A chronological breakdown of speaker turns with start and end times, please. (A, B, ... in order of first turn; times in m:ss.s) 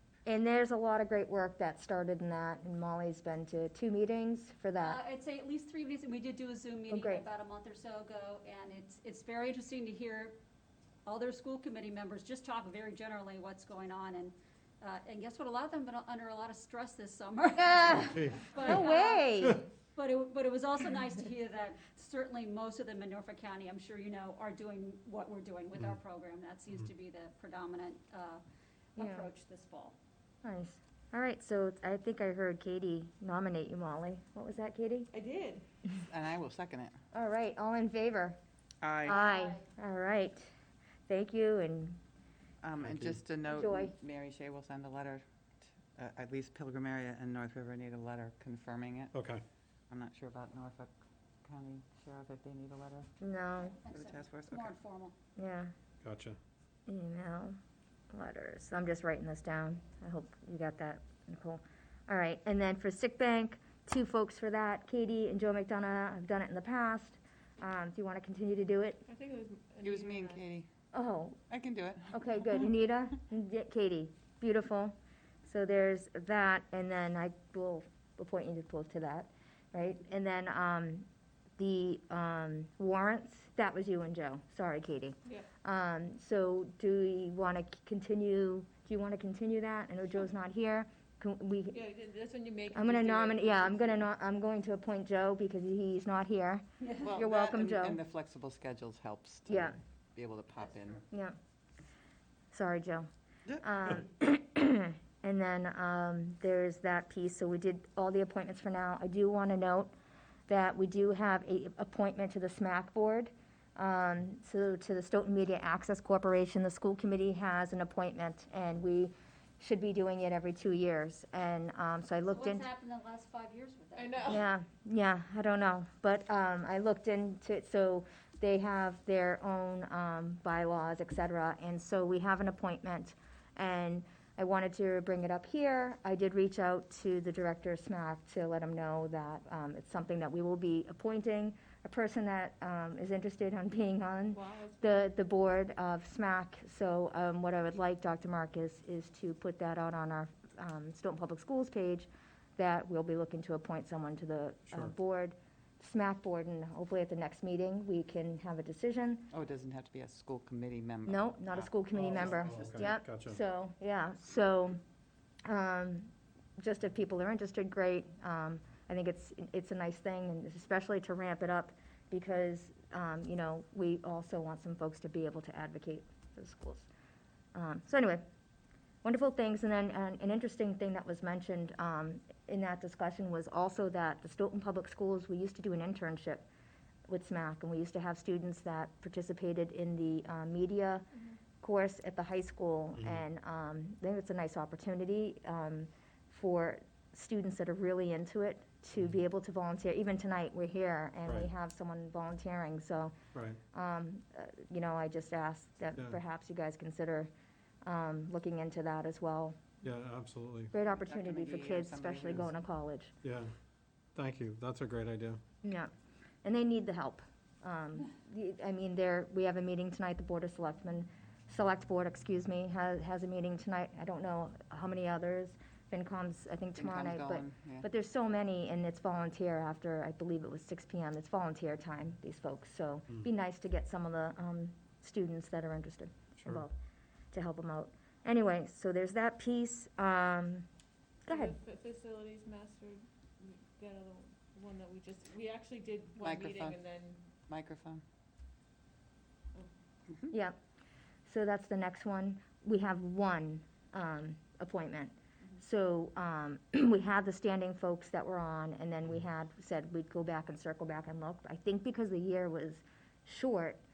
0:00.3-0:05.0 A
0:04.8-0:10.4 B
0:06.9-0:07.3 A
0:11.1-0:28.4 B
0:17.6-0:19.6 A
0:18.1-0:18.7 C
0:29.0-0:30.0 B
0:29.0-0:29.3 A
0:30.4-0:35.1 A
0:35.1-0:35.6 D
0:36.0-0:37.0 E
0:37.1-0:38.4 A
0:38.8-0:39.2 E
0:39.0-0:39.6 B
0:39.0-0:40.5 A
0:41.1-0:42.0 A
0:42.6-0:49.1 E
0:42.8-0:43.2 C
0:43.5-0:43.9 A
0:49.1-0:49.4 C
0:49.9-0:50.9 E
0:51.4-0:53.1 E
0:53.2-0:53.8 A
0:53.7-0:55.1 B
0:53.9-0:54.7 E
0:55.4-0:55.7 A
0:56.0-0:56.4 C
0:56.9-0:57.6 A
0:58.1-1:09.0 A
1:09.1-1:10.4 D
1:09.8-1:10.7 E
1:10.9-1:11.4 A
1:11.5-1:12.2 E
1:12.1-1:21.1 A
1:21.6-1:31.8 A
1:31.7-1:34.0 D
1:32.7-1:38.0 A
1:36.8-1:37.2 B
1:37.0-1:41.0 E
1:39.5-1:39.8 A
1:41.1-1:41.4 A
1:42.5-1:43.1 A
1:43.6-1:49.9 A
1:50.5-2:02.6 A
2:02.3-2:04.4 B
2:04.0-2:04.4 D
2:04.3-2:39.3 A
2:24.3-2:25.0 D
2:39.3-2:42.8 E
2:41.1-2:44.8 A
2:42.0-2:43.4 C
2:45.4-2:56.9 A
2:57.6-2:58.2 A
2:59.0-3:06.5 A
3:07.1-3:11.1 A
3:11.6-3:23.1 A
3:13.0-3:13.2 C
3:23.3-3:23.6 C
3:23.7-3:27.3 A
3:27.8-3:29.6 A
3:29.8-3:30.7 C
3:30.7-3:33.1 A
3:31.0-3:32.5 E
3:33.2-3:33.5 C
3:34.2-3:35.4 C
3:35.6-3:35.9 A
3:36.4-3:56.7 A
3:46.8-3:47.8 E
3:57.3-4:00.7 A
4:01.3-4:01.5 A
4:01.3-4:07.3 D
4:06.2-4:06.8 E
4:07.5-4:08.0 E
4:10.3-4:10.6 A
4:11.3-4:23.8 A